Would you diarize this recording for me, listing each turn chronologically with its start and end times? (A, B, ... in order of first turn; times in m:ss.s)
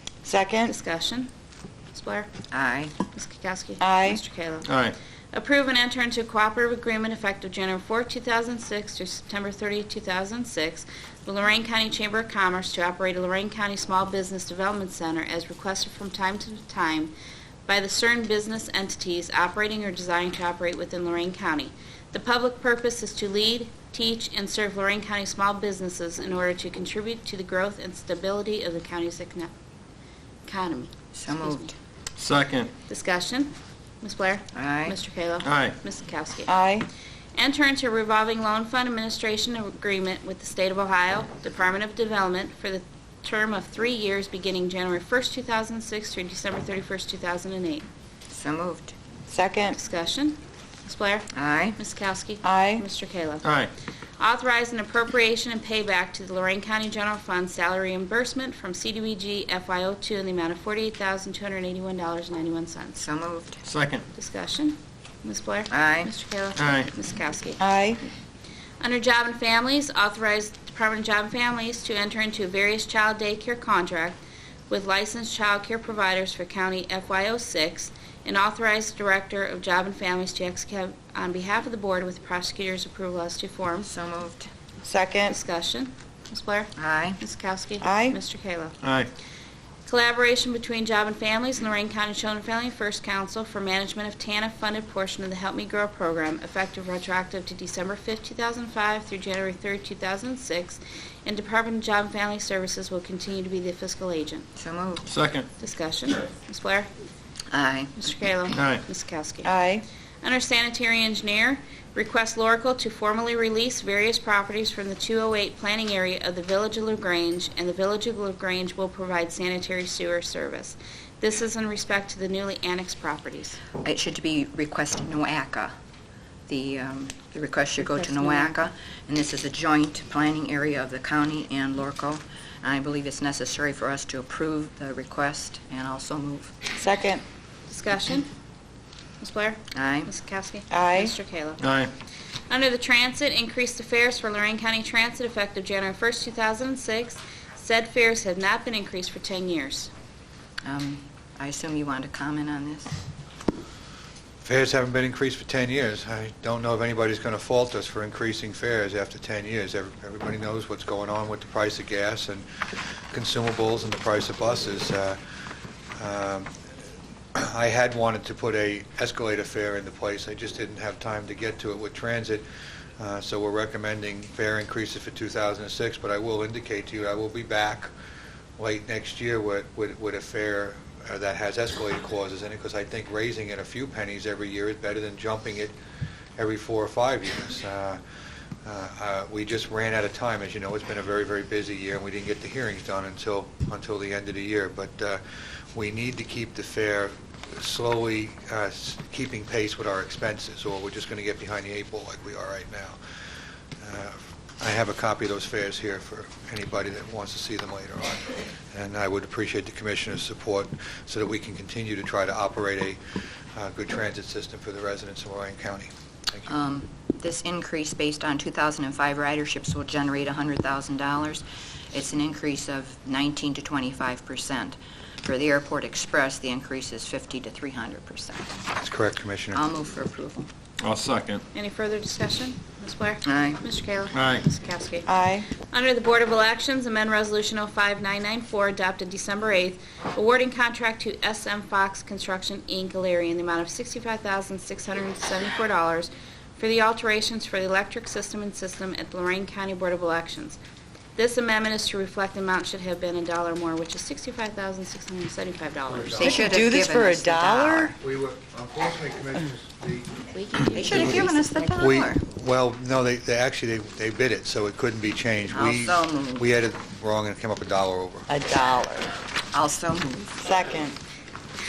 0:00.2-0:00.7 A
0:00.7-0:01.3 B
0:01.9-0:02.3 B
0:02.5-0:02.9 C
0:03.1-0:04.7 B
0:03.8-0:04.2 A
0:04.6-0:05.0 D
0:05.3-0:17.1 B
0:17.7-0:29.5 B
0:30.5-0:31.7 B
0:31.2-0:31.7 C
0:32.2-0:32.7 D
0:32.9-0:33.5 B
0:34.0-0:36.5 B
0:34.6-0:35.0 C
0:35.4-0:35.8 D
0:36.5-0:36.9 A
0:37.4-0:47.9 B
0:48.3-0:48.9 C
0:49.3-0:49.8 A
0:49.7-0:53.4 B
0:51.3-0:51.8 C
0:52.4-0:52.8 A
0:53.4-0:53.7 D
0:54.2-1:03.0 B
1:03.0-1:03.6 C
1:03.6-1:04.0 D
1:04.1-1:07.6 B
1:05.7-1:06.1 C
1:06.6-1:06.9 D
1:07.6-1:08.0 A
1:08.8-1:23.9 B
1:23.8-1:24.5 C
1:24.8-1:25.4 A
1:25.3-1:28.8 B
1:26.8-1:27.2 C
1:27.8-1:28.2 A
1:28.8-1:29.1 D
1:29.9-1:44.5 B
1:44.6-1:45.1 C
1:45.1-1:45.5 D
1:45.6-1:46.9 B
1:47.5-1:48.0 C
1:48.0-1:49.5 B
1:48.5-1:48.8 D
1:49.4-1:49.8 A
1:50.2-2:03.6 B
2:03.8-2:05.7 C
2:06.5-2:16.5 C
2:07.9-2:08.5 B
2:16.8-2:17.2 A
2:17.7-2:18.3 B
2:19.2-2:21.6 B
2:19.7-2:20.1 C
2:20.7-2:21.1 A
2:21.6-2:21.9 D
2:22.5-2:29.9 B
2:30.6-2:33.0 C
2:34.4-2:42.5 E
2:43.1-2:45.2 E
2:46.0-2:46.5 E
2:47.3-2:52.5 E
2:53.0-2:57.9 E
2:58.6-3:05.8 E
3:06.4-3:08.0 E
3:08.6-3:15.2 E
3:15.7-3:23.0 E
3:23.8-3:33.0 E
3:33.6-3:36.5 E
3:36.5-3:48.6 C
3:48.8-3:49.6 E
3:49.5-3:50.5 C
3:50.8-3:51.4 D
3:51.5-4:10.6 B
3:53.3-3:53.6 C
3:54.1-3:54.4 D
3:55.1-3:55.5 A
4:11.2-4:16.5 B
4:15.9-4:16.6 E
4:16.2-4:18.0 C
4:16.4-4:18.0 A
4:18.0-4:20.2 E
4:20.3-4:21.8 B
4:20.7-4:22.2 C
4:20.8-4:28.3 E
4:25.5-4:26.5 C
4:28.3-4:29.1 A
4:29.5-4:30.4 C
4:30.4-4:31.0 A